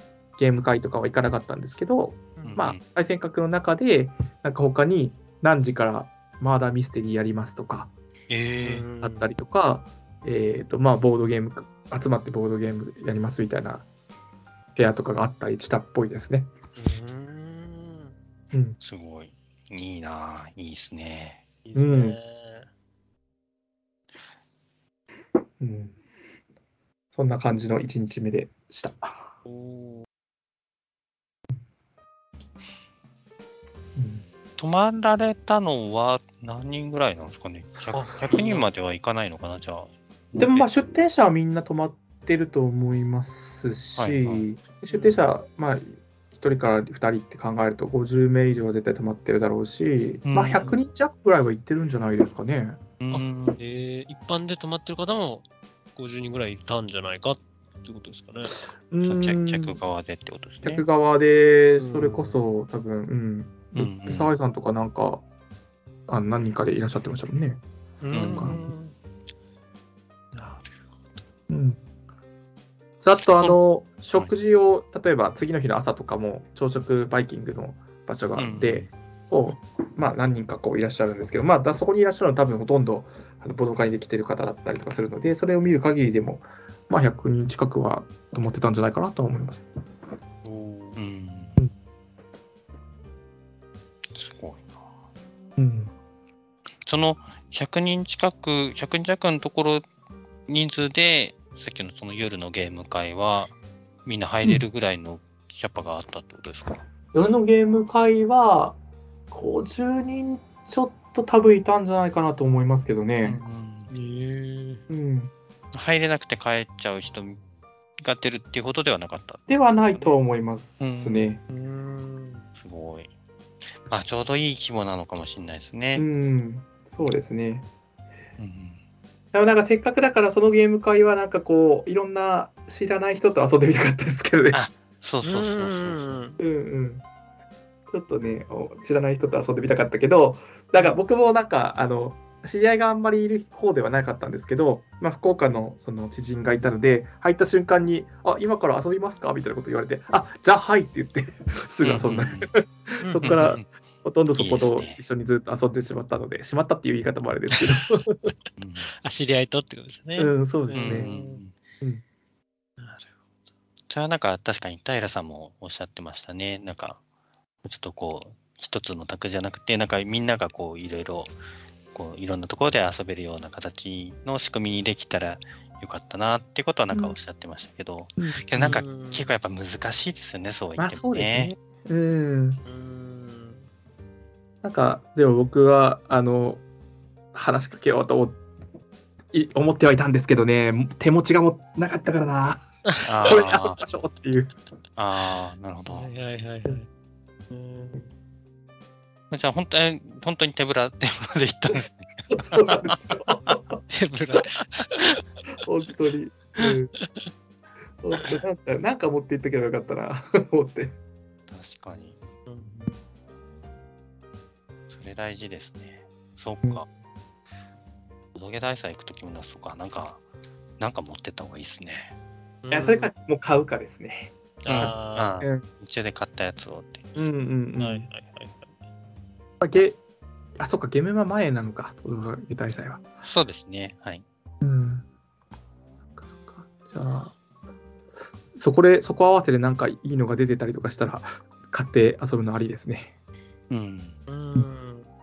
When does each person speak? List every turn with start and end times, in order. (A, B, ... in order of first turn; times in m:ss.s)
0:00.4-0:07.9 A
0:02.4-0:02.6 B
0:02.5-0:02.8 C
0:08.3-0:08.8 C
0:08.6-0:09.3 B
0:09.0-0:13.8 A
0:14.7-0:16.5 A
0:16.8-0:18.2 B
0:18.5-0:18.8 A
0:18.8-0:21.4 C
0:21.6-0:22.7 B
0:21.7-0:22.2 A
0:25.6-0:25.9 A
0:27.1-0:29.2 A
0:29.4-0:30.0 B
0:34.0-0:34.2 A
0:34.6-0:40.7 C
0:37.9-0:38.7 B
0:40.4-0:52.8 A
0:44.0-0:44.4 C
0:44.9-0:45.2 B
0:50.2-0:50.7 C
0:53.0-0:53.6 C
0:53.1-0:55.4 B
0:56.0-0:58.6 B
0:58.9-0:59.8 A
0:59.0-1:00.8 C
1:00.6-1:05.2 A
1:01.8-1:02.4 B
1:03.7-1:04.3 C
1:06.1-1:07.6 A
1:08.0-1:08.9 B
1:08.1-1:08.6 C
1:08.3-1:08.6 A
1:10.3-1:11.2 B
1:11.5-1:11.8 A
1:13.0-1:29.6 A
1:18.4-1:18.9 C
1:30.4-1:31.0 B
1:31.0-1:31.6 C
1:34.1-1:34.8 C
1:35.6-1:35.9 A
1:36.8-1:39.8 C
1:40.5-1:43.5 C
1:44.0-1:46.8 C
1:47.1-1:48.8 A
1:49.3-1:53.4 A
1:53.2-1:53.9 C
1:53.9-1:54.8 B
1:54.9-1:55.3 A
1:55.7-1:57.4 C
1:58.0-2:00.2 C
1:59.5-2:01.4 A
2:00.8-2:01.3 C
2:01.5-2:02.5 B
2:02.6-2:03.1 C
2:03.8-2:06.0 C
2:05.9-2:07.7 A
2:08.4-2:08.8 C
2:09.3-2:14.6 A
2:14.5-2:16.2 C
2:15.2-2:16.4 B
2:16.4-2:17.0 A
2:17.9-2:38.3 A
2:31.8-2:32.5 C
2:33.0-2:33.4 B
2:33.2-2:33.7 C
2:34.4-2:35.0 C
2:38.6-2:38.9 C
2:39.0-2:41.4 B
2:40.2-2:41.1 A
2:40.7-2:41.5 C
2:42.8-2:43.2 B
2:43.9-2:47.0 C
2:47.6-2:51.3 C
2:51.9-3:01.5 C
2:56.9-2:57.2 A
2:58.2-2:58.7 A
2:58.6-2:59.3 B
3:00.8-3:02.6 A
3:02.6-3:03.6 B
3:04.6-3:06.6 A
3:07.3-3:08.4 A
3:09.3-3:12.6 A
3:12.9-3:13.4 B
3:13.0-3:13.8 C
3:13.2-3:14.6 A
3:15.0-3:16.1 C
3:15.9-3:16.9 B
3:17.5-3:18.1 B
3:19.3-3:22.4 C
3:22.3-3:23.8 A
3:23.9-3:25.2 B
3:25.6-3:26.9 A
3:27.0-3:27.3 B
3:28.0-3:30.9 A
3:31.5-3:32.2 C
3:32.4-3:33.0 B
3:34.9-3:36.8 C
3:38.3-3:40.2 C
3:40.8-3:42.1 C
3:42.6-3:43.1 B
3:42.7-3:45.6 A
3:44.6-3:45.4 B
3:44.6-3:47.1 C
3:47.2-3:48.1 A
3:47.8-3:48.7 B
3:49.6-3:50.0 A
3:50.6-3:53.0 A
3:53.2-3:54.2 C
3:54.6-3:55.0 A
3:56.2-3:57.3 A
3:58.6-4:03.1 A
4:03.7-4:04.2 C
4:04.3-4:05.1 B